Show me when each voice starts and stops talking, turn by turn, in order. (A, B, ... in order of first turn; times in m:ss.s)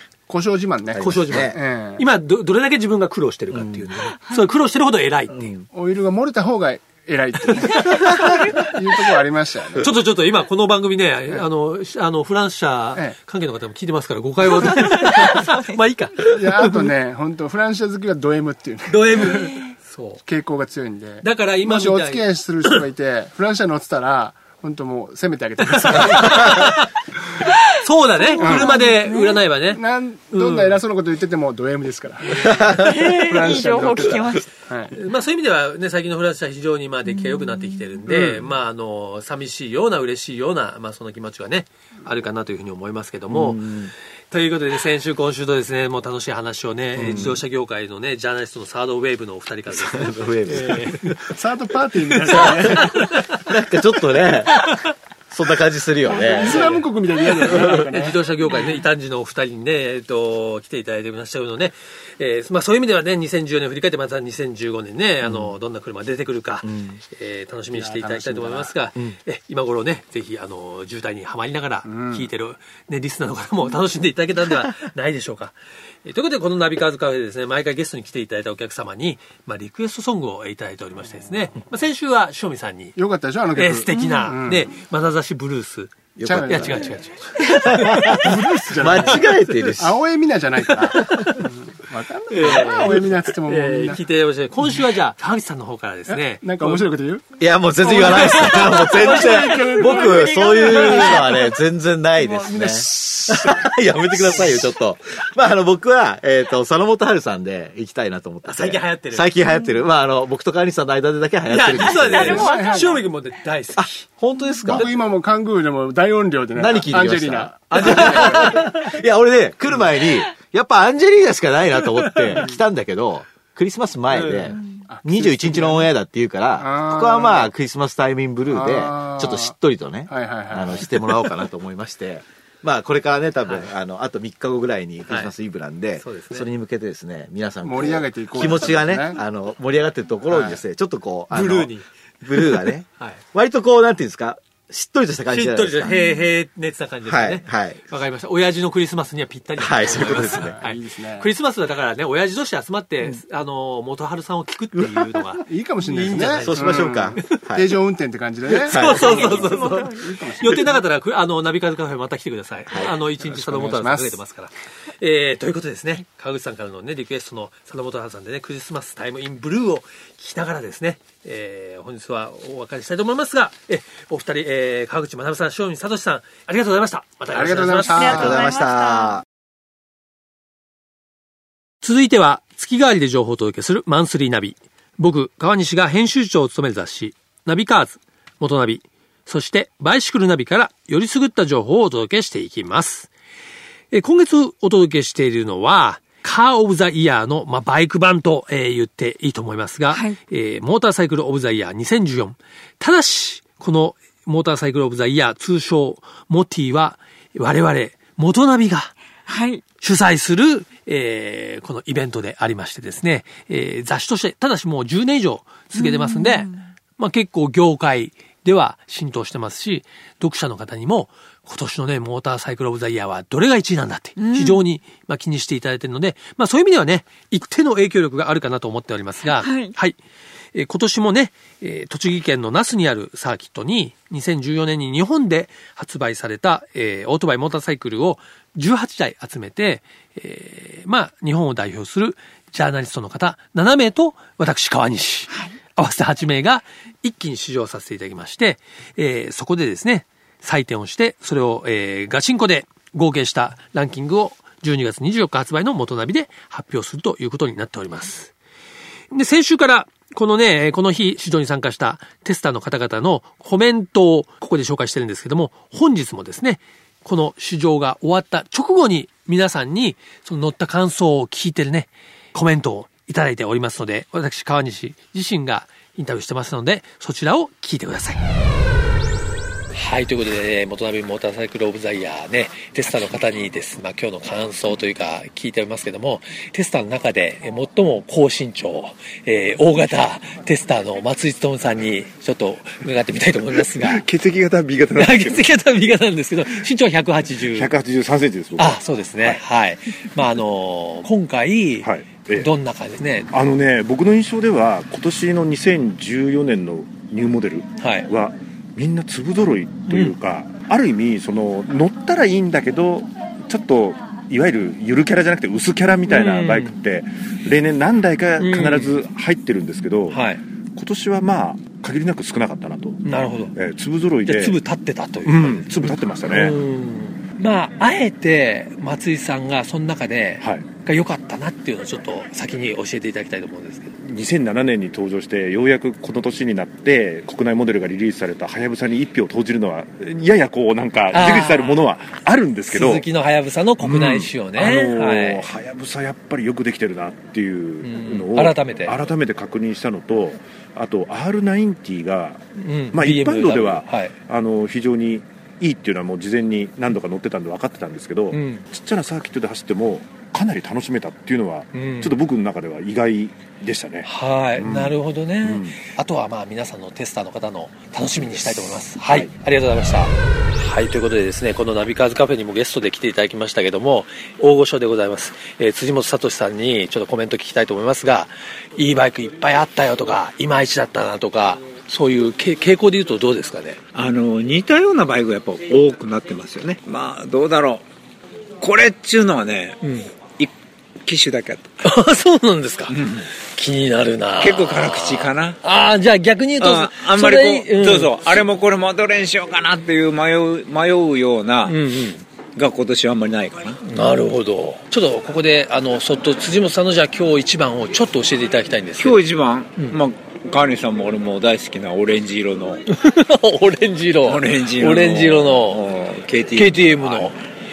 0:00.3-0:02.0 A
0:00.9-0:01.6 B
0:01.0-0:05.4 C
0:03.5-0:03.8 B
0:05.3-0:05.6 B
0:05.7-0:09.9 A
0:07.5-0:08.7 C
0:09.8-0:16.9 C
0:14.5-0:15.8 D
0:16.3-0:19.5 A
0:18.9-0:20.2 C
0:20.2-0:26.9 A
0:21.2-0:22.8 C
0:25.8-0:26.9 C
0:27.7-0:30.8 C
0:28.2-0:29.4 D
0:28.4-0:28.8 A
0:29.7-0:35.0 A
0:32.4-0:32.8 B
0:32.8-0:34.5 D
0:34.9-0:43.7 C
0:37.1-0:38.0 D
0:38.1-0:38.4 A
0:43.3-0:43.9 B
0:44.3-0:51.2 C
0:46.9-0:47.4 B
0:49.7-0:51.2 B
0:51.2-0:53.2 A
0:52.2-0:53.4 C
0:52.3-0:54.8 B
0:54.5-0:54.8 C
0:55.3-0:56.8 B
0:56.1-0:58.2 A
0:56.4-1:23.0 C
1:05.2-1:05.5 B
1:06.6-1:07.0 B
1:07.7-1:08.7 A
1:11.8-1:12.3 A
1:23.0-1:24.7 A
1:23.5-1:28.2 C
1:23.9-1:24.3 D
1:26.2-1:30.0 B
1:26.2-1:26.9 A
1:27.8-1:34.0 A
1:30.7-1:31.4 C
1:32.3-1:36.9 C
1:36.1-1:37.2 A
1:37.4-1:52.5 B
1:37.8-1:40.2 C
1:37.8-1:41.4 A
1:39.5-1:41.4 D
1:42.2-1:43.6 A
1:48.4-1:49.3 C
1:51.5-1:54.0 C
1:52.1-1:53.0 A
1:52.1-1:53.0 D
1:53.8-1:54.9 B
1:54.7-1:58.8 A
1:56.6-2:26.0 B
1:57.8-1:58.7 C
2:04.1-2:04.5 C
2:04.9-2:05.9 A
2:06.6-2:07.5 A
2:08.5-2:09.5 A
2:10.1-2:10.9 A
2:16.0-2:16.5 C
2:17.6-2:19.2 A
2:20.3-2:20.6 A
2:21.3-2:21.8 C
2:25.3-2:37.3 C
2:25.9-2:26.2 D
2:27.0-2:27.8 B
2:29.6-2:30.6 B
2:29.9-2:31.3 A
2:34.8-2:35.0 B
2:35.4-2:40.8 A
2:36.4-2:37.7 B
2:38.5-2:58.4 C
2:38.6-2:39.5 B
2:39.2-2:40.1 D
2:43.2-2:44.2 A
2:57.3-2:58.4 A
2:58.0-2:59.2 D
2:58.0-2:59.2 B
3:01.8-3:13.1 C
3:13.9-3:28.9 C
3:19.9-3:20.2 D
3:29.2-3:29.6 D
3:29.8-3:50.0 C
3:35.7-3:36.6 D
3:44.2-3:44.6 D
3:49.2-3:49.7 D
3:50.5-4:18.3 C
4:19.1-4:38.2 C
4:39.7-4:54.0 C
4:53.7-4:55.5 E
4:54.9-4:57.7 C
4:57.5-4:59.4 E
4:58.6-5:03.3 C
5:01.8-5:02.5 E
5:03.3-5:20.2 E
5:07.8-5:08.1 C
5:09.9-5:10.1 C
5:16.1-5:16.7 C
5:18.4-5:18.9 C
5:20.1-5:20.4 C
5:20.7-5:23.0 E
5:23.0-5:23.5 C
5:23.5-5:24.6 E
5:24.2-5:33.9 C
5:25.2-5:26.6 E
5:30.4-5:30.7 E
5:34.0-5:43.0 E
5:41.1-5:41.8 C
5:42.7-5:45.5 C
5:43.8-6:05.8 E
5:47.8-5:49.0 C
5:52.6-5:54.1 C
5:58.3-5:58.6 C
6:01.7-6:02.1 C
6:04.0-6:23.8 C
6:09.0-6:09.3 E
6:23.9-6:27.8 F
6:28.6-6:29.8 F
6:29.8-6:30.1 C
6:31.0-6:31.7 F
6:31.8-6:38.4 C
6:32.9-6:33.3 F
6:34.4-6:35.6 F
6:36.6-6:41.8 F
6:41.6-6:42.2 C
6:42.5-6:43.9 F
6:43.8-6:49.2 C
6:49.0-6:52.8 F
6:52.9-6:55.8 C
6:54.2-6:57.3 F
6:56.5-6:57.4 C